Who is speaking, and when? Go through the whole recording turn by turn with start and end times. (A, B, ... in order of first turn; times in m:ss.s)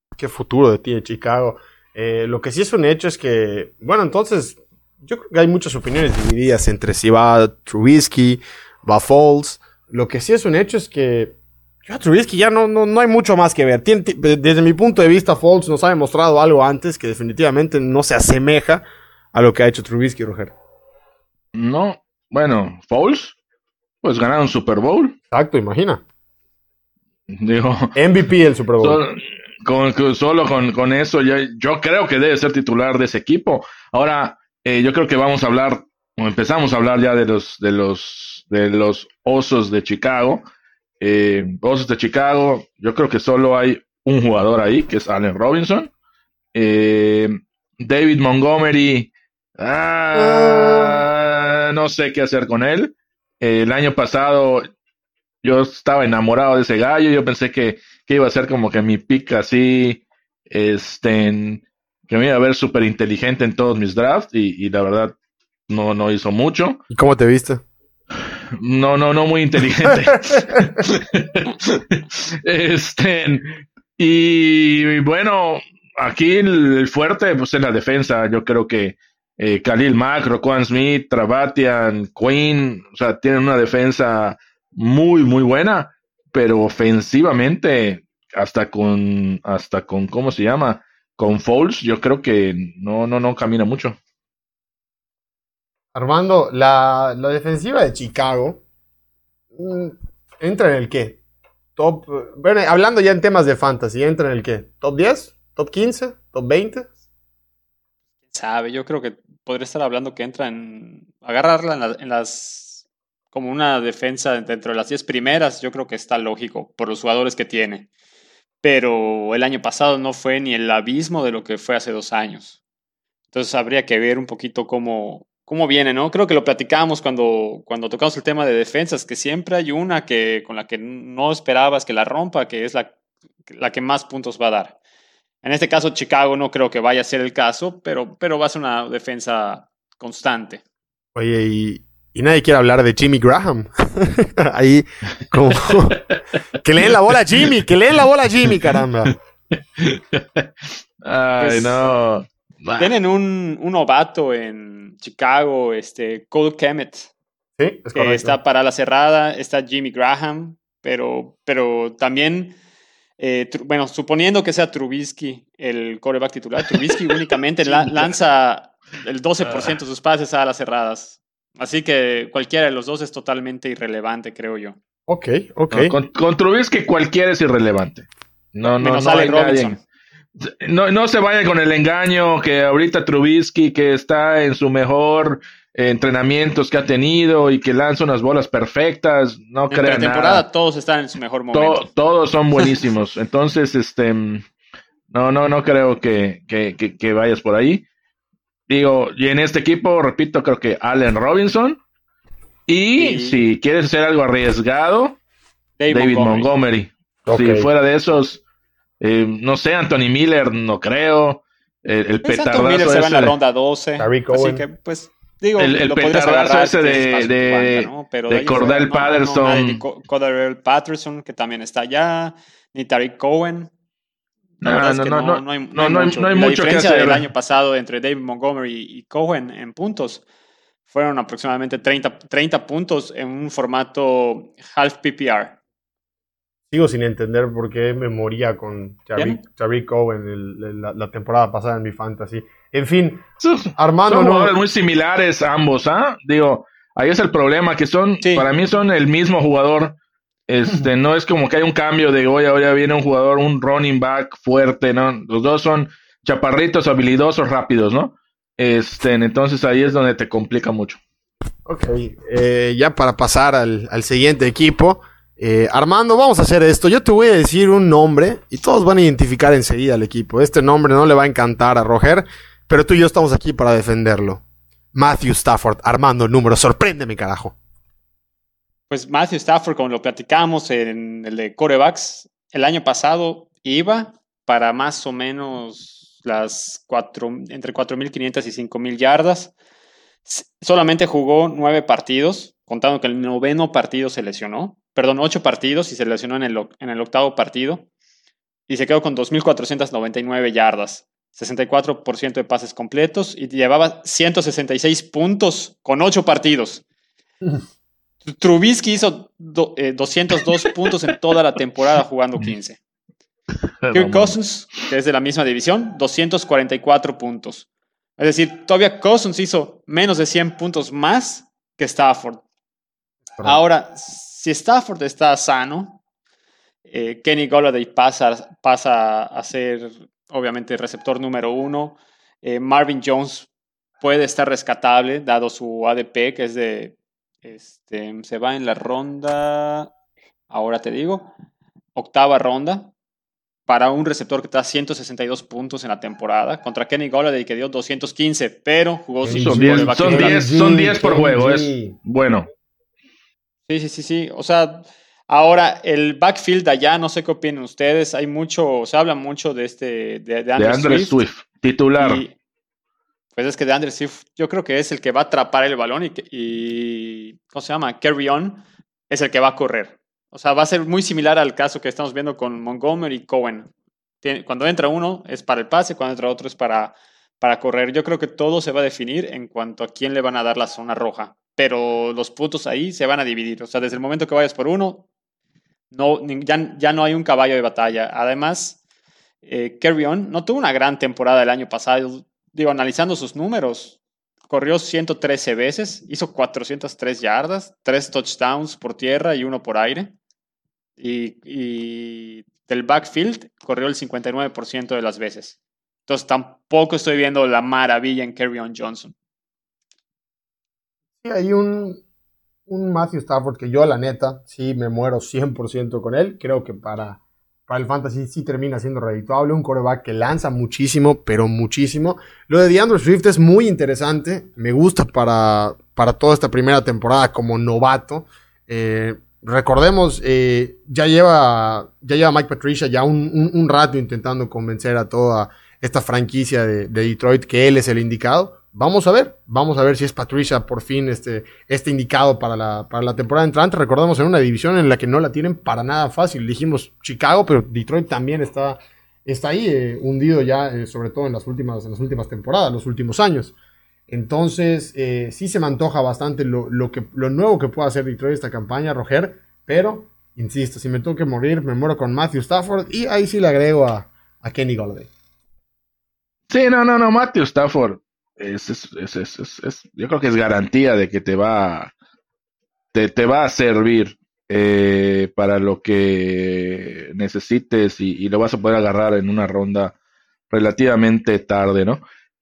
0:00.2-0:20.5 A
0:21.5-0:23.4 B
0:24.0-0:25.2 B
0:25.3-0:26.0 A
0:27.3-0:28.0 B
0:28.0-0:29.0 A
0:28.8-0:40.4 B
0:41.0-0:45.9 B
0:46.5-0:54.6 B
0:50.2-0:51.0 A
0:55.4-1:05.1 B
1:05.7-1:06.8 B
1:06.9-1:07.6 A
1:08.5-1:34.0 B
1:36.0-1:38.6 A
1:39.6-1:41.2 A
1:41.8-1:46.9 A
1:48.3-1:57.9 C
1:58.6-2:02.6 C
2:03.3-2:12.9 C
2:13.5-2:14.8 C
2:15.4-2:20.6 C
2:21.2-2:26.0 A
2:26.6-2:29.2 A
2:29.8-2:32.9 B
2:31.4-2:31.9 C
2:32.8-2:37.1 C
2:37.6-2:38.4 A
2:37.9-2:42.6 C
2:43.2-2:54.8 C
2:55.1-2:55.9 A
2:55.7-2:59.8 B
2:58.8-2:59.8 C
3:00.4-3:10.4 B
3:09.7-3:11.9 C
3:11.5-3:14.4 B
3:15.1-3:17.8 B
3:18.7-3:21.8 B
3:22.7-3:25.2 B
3:23.0-3:23.4 C
3:25.8-3:26.5 C
3:25.9-3:28.4 B
3:27.3-3:27.7 A
3:29.0-3:33.3 B
3:32.2-3:43.7 C
3:34.0-3:34.6 A
3:35.6-3:39.8 B
3:44.6-3:50.2 C
3:44.6-3:47.3 B
3:50.9-3:55.6 C
3:56.7-4:03.2 A
3:59.2-3:59.4 C
4:03.4-4:10.0 B
4:03.8-4:04.6 A
4:08.2-4:08.5 C
4:10.5-4:21.0 B
4:21.7-4:34.4 A
4:34.9-4:37.6 A
4:38.9-4:49.5 C
4:50.3-4:57.9 C
4:58.7-5:06.8 C
5:08.2-5:12.8 C
5:13.8-5:14.4 B
5:13.9-5:17.7 C
5:18.2-5:22.4 C
5:23.4-5:26.0 C
5:26.9-5:33.5 C
5:34.0-5:39.9 C
5:40.5-5:41.3 C
5:42.0-5:42.9 C
5:43.7-5:50.4 C
5:49.2-5:52.0 A
5:49.3-5:52.5 B
5:53.7-6:01.2 C
6:00.6-6:02.2 B
6:02.0-6:02.4 C
6:03.4-6:13.7 C
6:14.2-6:25.1 C
6:25.9-6:28.8 C
6:29.4-6:34.0 C
6:34.5-6:40.1 C
6:41.0-6:49.1 C
6:51.2-6:52.0 A
6:52.7-7:33.6 A
7:34.1-7:45.1 A
7:46.5-7:51.9 B
7:52.9-7:59.9 B
8:00.5-8:02.0 B